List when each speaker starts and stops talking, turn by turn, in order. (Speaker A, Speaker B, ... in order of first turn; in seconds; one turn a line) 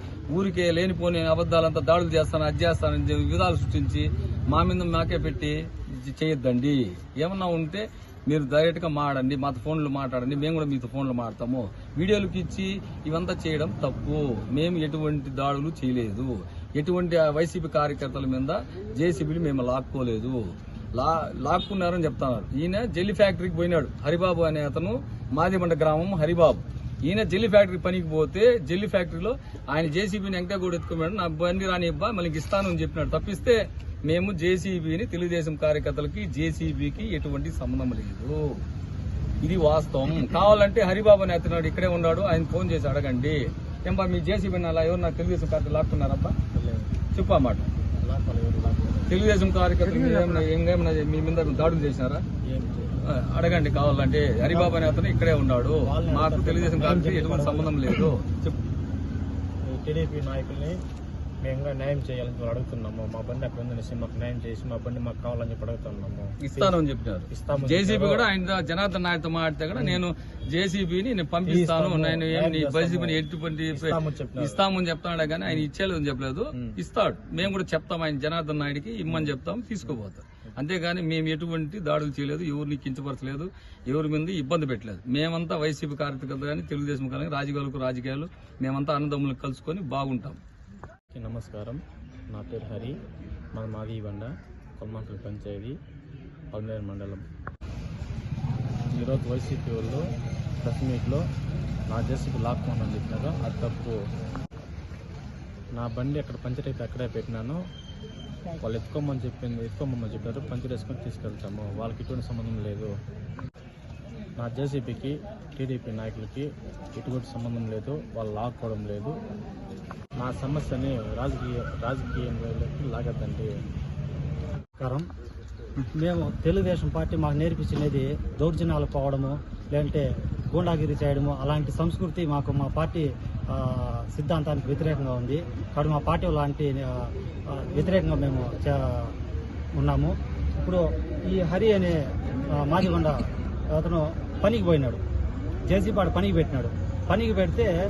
Speaker A: 0.3-20.4
Speaker A: 20.9-38.4
Speaker A: 39.4-46.4
Speaker B: 46.5-46.9
Speaker A: 47.1-47.6
Speaker B: 48.0-49.1
Speaker A: 49.1-52.2
Speaker B: 52.4-53.0
Speaker A: 53.0-58.6
Speaker B: 54.5-54.8
Speaker B: 55.8-57.8
Speaker B: 59.6-60.8
Speaker B: 61.4-66.8
Speaker A: 66.4-90.4
Speaker B: 67.3-68.3
Speaker B: 69.7-70.0
Speaker B: 71.5-74.6
Speaker B: 79.1-79.3
Speaker B: 91.1-93.0
Speaker B: 93.5-95.8
Speaker B: 96.5-97.2
Speaker B: 98.9-100.0
Speaker B: 100.6-101.3
Speaker B: 101.9-104.0
Speaker B: 105.8-107.6
Speaker B: 108.6-112.9
Speaker B: 114.4-119.2
Speaker B: 120.2-123.5
Speaker C: 124.8-125.0
Speaker C: 126.0-139.2
Speaker C: 139.8-142.0
Speaker C: 142.5-143.2
Speaker C: 143.7-145.0
Speaker C: 145.7-147.7